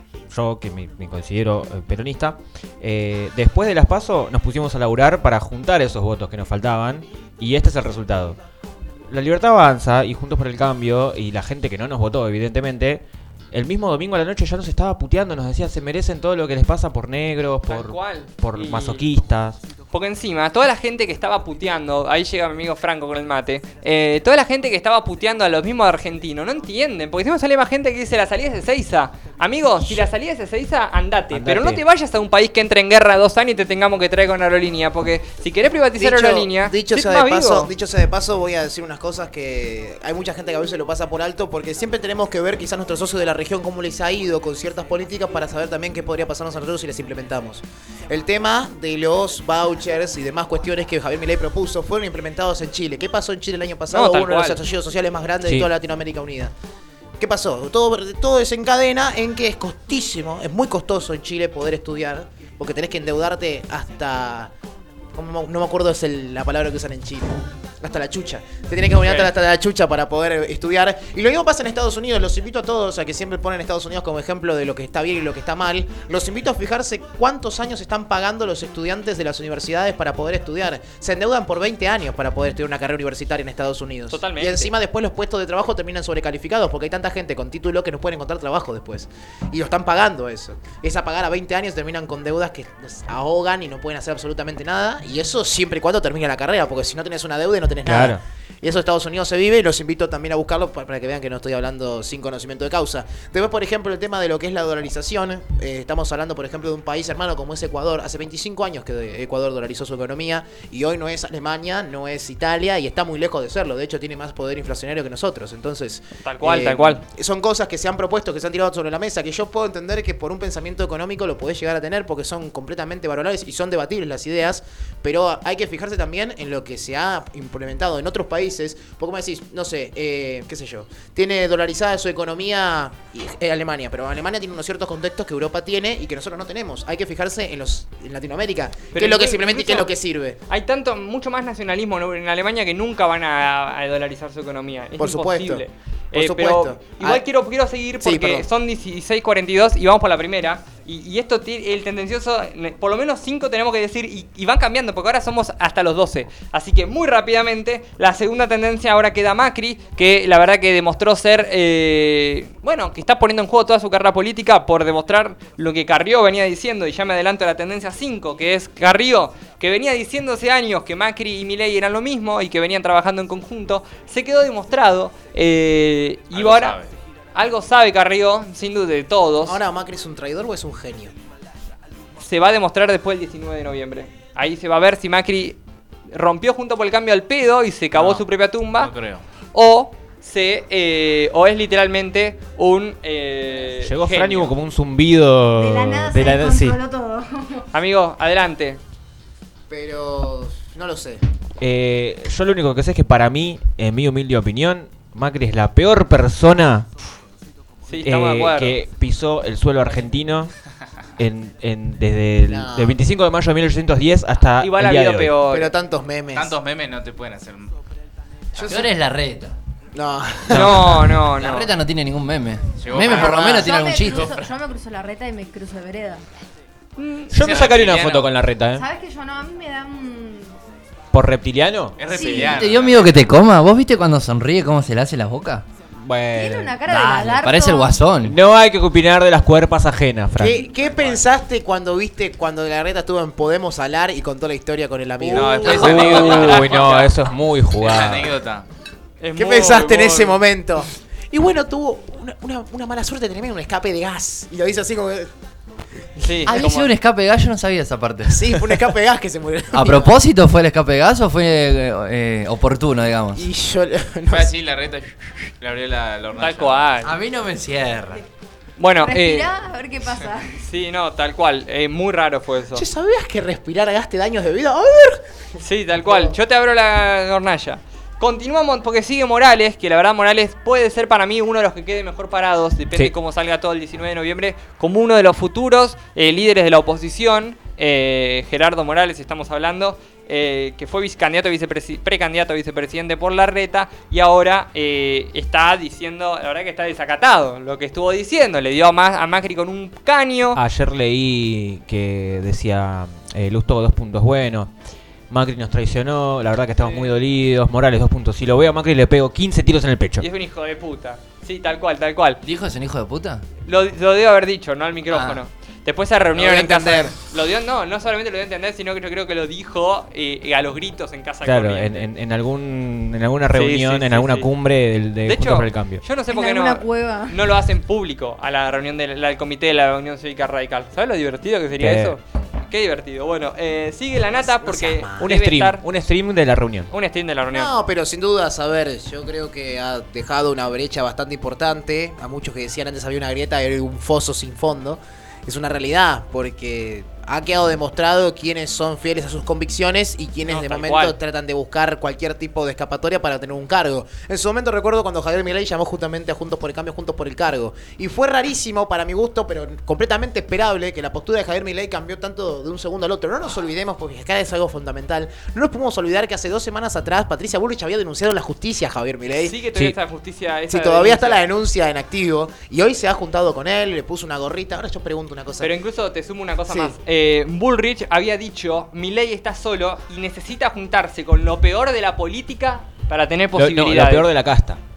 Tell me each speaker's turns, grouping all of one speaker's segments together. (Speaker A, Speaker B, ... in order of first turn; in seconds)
Speaker A: 0.3-8.4, 9.1-19.6, 31.3-31.8, 55.4-55.7, 97.8-98.2, 193.8-196.8, 201.6-206.9, 208.0-210.5, 211.2-215.3, 220.5-220.8, 227.3-228.8, 231.1-232.0, 236.0-236.8, 238.2-240.7, 245.3-248.4, 300.5-304.7, 305.3-310.2, 321.4-326.0, 331.8-332.2, 335.2-336.9, 383.5-384.8
Speaker B: 17.7-19.0, 19.9-37.7, 53.9-54.6, 69.0-69.3, 84.1-84.7, 116.2-117.0, 138.9-139.9, 140.5-176.8, 177.3-179.6, 182.2-185.6, 186.1-188.9, 189.5-194.5, 197.7-198.8, 207.9-208.8, 214.6-215.7, 220.5-221.7, 227.0-227.3, 249.2-250.4, 256.2-256.9, 266.4-267.1, 268.8-269.5, 270.6-272.8, 275.6-300.6, 306.8-307.1, 310.2-312.4, 313.6-322.1, 323.5-324.5, 325.2-335.8, 336.9-337.7, 350.5-351.1, 369.3-371.4, 375.6-384.3
Speaker C: 36.0-56.5, 57.2-64.5, 65.1-140.4, 145.0-147.2, 148.0-148.4, 179.4-181.1, 199.7-201.2, 212.5-213.0, 215.5-216.6, 218.6-218.9, 219.9-221.1, 223.0-223.7, 240.4-246.6, 249.4-255.3, 258.3-260.2, 263.3-264.6, 272.7-275.2, 276.0-276.3, 316.3-317.1, 334.4-335.3, 337.5-369.6, 370.7-375.7, 376.7-376.9
Speaker D: 176.3-176.9, 187.9-188.2, 188.8-189.2, 216.3-217.7, 222.8-223.6, 224.1-224.5, 227.3-228.3, 232.0-233.3, 240.8-241.2, 245.2-247.1, 247.8-248.6, 264.3-266.9
Speaker E: 195.6-197.6, 223.1-226.2, 228.7-230.6, 232.1-232.7, 236.3-238.0, 269.0-270.6, 326.3-327.4
Speaker F: 218.6-219.5, 221.3-224.4, 232.4-235.7, 236.8-238.4, 256.4-258.5, 259.7-263.4, 267.0-268.2, 312.4-313.4, 315.1-315.4